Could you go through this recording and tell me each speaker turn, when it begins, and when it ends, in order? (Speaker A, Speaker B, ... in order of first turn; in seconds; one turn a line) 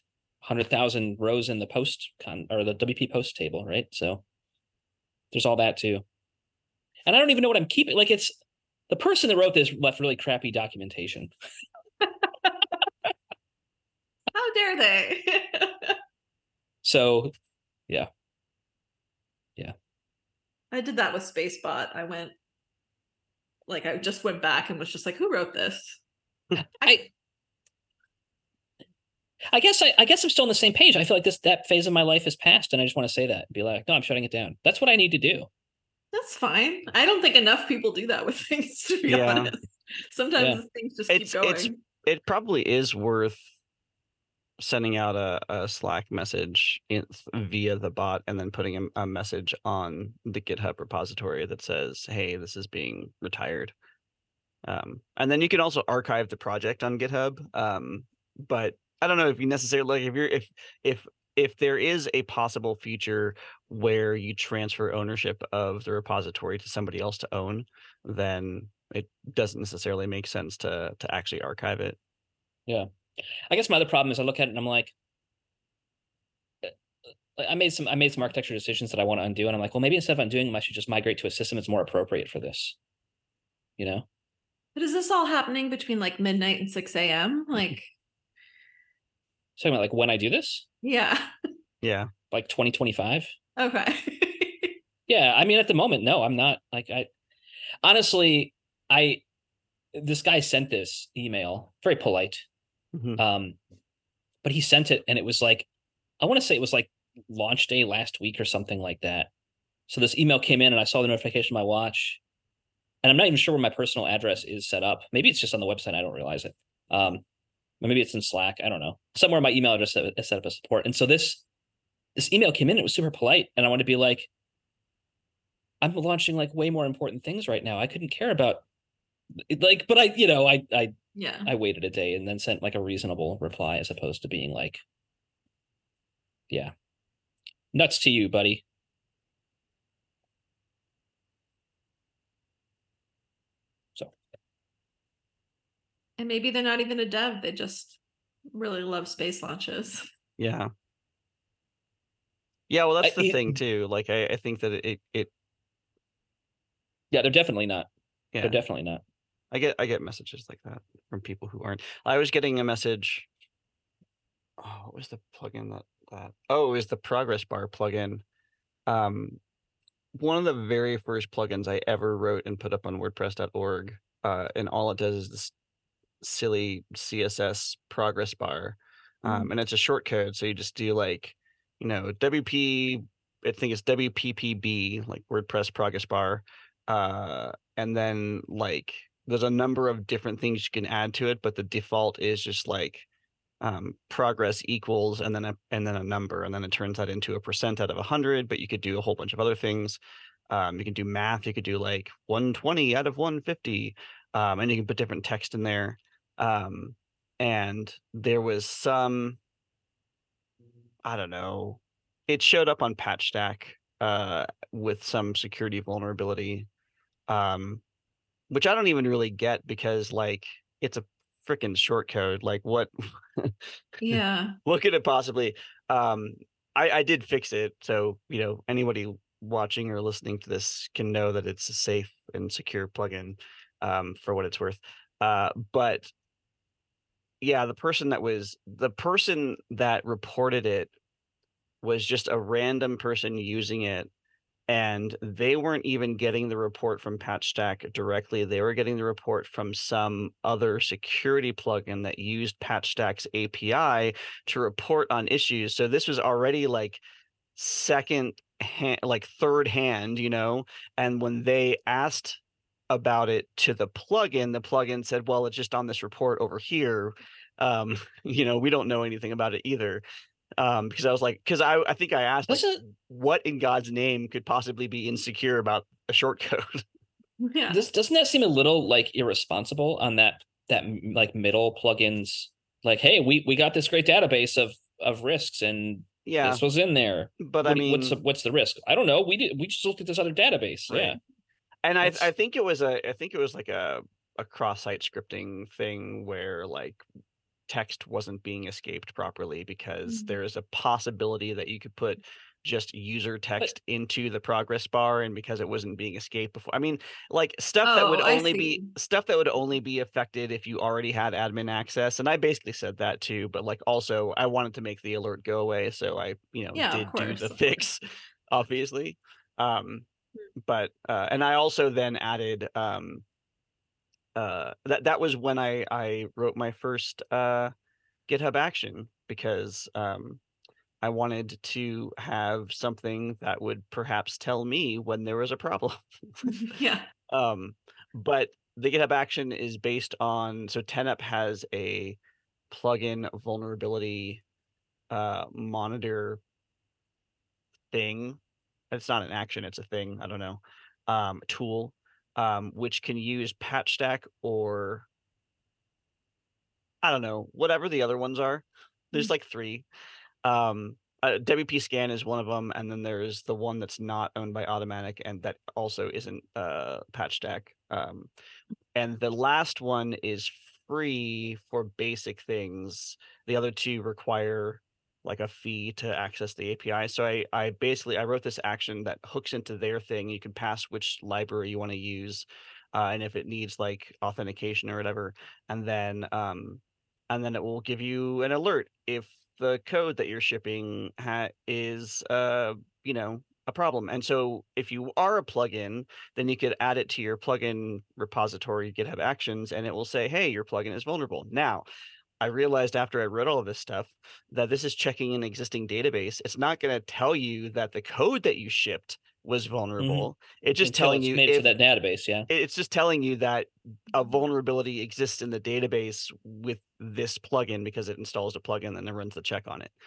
Speaker A: 0.4-4.2
Speaker A: 5.3-6.0
Speaker A: 7.0-8.3
Speaker A: 8.9-11.3
Speaker B: 14.3-16.0
Speaker A: 16.8-17.3
Speaker B: 20.7-22.3
Speaker B: 23.7-26.0
Speaker A: 26.8-27.1
Speaker A: 29.5-35.5
Speaker B: 36.1-41.7
Speaker C: 39.1-39.5
Speaker A: 40.4-40.6
Speaker C: 41.1-43.4
Speaker C: 44.6-53.7
Speaker C: 54.6-72.0
Speaker A: 73.5-74.9
Speaker A: 77.3-82.8
Speaker A: 83.8-84.0
Speaker B: 84.8-87.9
Speaker A: 89.6-90.7
Speaker B: 90.8-91.3
Speaker C: 91.8-92.1
Speaker A: 92.3-93.3
Speaker B: 93.6-94.7
Speaker A: 95.1-97.1
Speaker A: 97.8-99.2
Speaker A: 99.9-102.4
Speaker C: 102.9-103.2
Speaker A: 103.2-103.6
Speaker A: 104.4-105.7
Speaker A: 106.2-109.3
Speaker A: 109.9-112.2
Speaker A: 113.0-117.2
Speaker A: 117.8-121.4
Speaker A: 122.2-124.3
Speaker A: 125.8-128.6
Speaker A: 129.4-134.8
Speaker B: 131.1-131.5
Speaker A: 137.7-138.6
Speaker B: 146.2-148.0
Speaker B: 148.5-150.1
Speaker C: 150.4-150.7
Speaker C: 152.7-155.3
Speaker A: 153.0-153.6
Speaker A: 157.1-157.9
Speaker C: 158.3-158.6
Speaker A: 158.4-159.0
Speaker C: 159.5-163.3
Speaker C: 164.6-168.2
Speaker C: 168.9-169.4
Speaker C: 170.1-175.5
Speaker C: 176.2-193.1
Speaker B: 179.2-179.5
Speaker C: 193.6-209.4
Speaker C: 211.0-216.7
Speaker C: 217.3-217.8
Speaker C: 218.5-223.7
Speaker B: 224.0-224.6
Speaker C: 224.6-236.1
Speaker C: 237.4-240.9
Speaker C: 241.8-244.1
Speaker C: 244.7-257.0
Speaker C: 257.6-270.0
Speaker C: 270.6-276.8
Speaker A: 272.5-272.8
Speaker B: 277.4-277.9
Speaker A: 277.7-291.2
Speaker C: 286.2-286.6
Speaker C: 287.4-288.2
Speaker C: 290.9-291.2
Speaker C: 291.8-297.0
Speaker A: 292.0-292.3
Speaker C: 297.7-320.1
Speaker B: 300.1-300.3
Speaker B: 307.8-308.9
Speaker B: 316.7-317.9
Speaker C: 320.6-323.2
Speaker C: 324.3-327.7
Speaker C: 328.3-330.4
Speaker C: 331.0-336.5
Speaker B: 336.4-337.1
Speaker C: 337.3-342.2
Speaker C: 342.7-344.4
Speaker C: 345.1-346.4
Speaker C: 347.9-348.4
Speaker C: 348.9-355.1
Speaker C: 357.0-359.9
Speaker C: 360.4-368.3
Speaker C: 368.9-401.8
Speaker C: 402.4-411.7
Speaker A: 410.0-410.3
Speaker A: 410.8-412.5
Speaker C: 412.5-419.9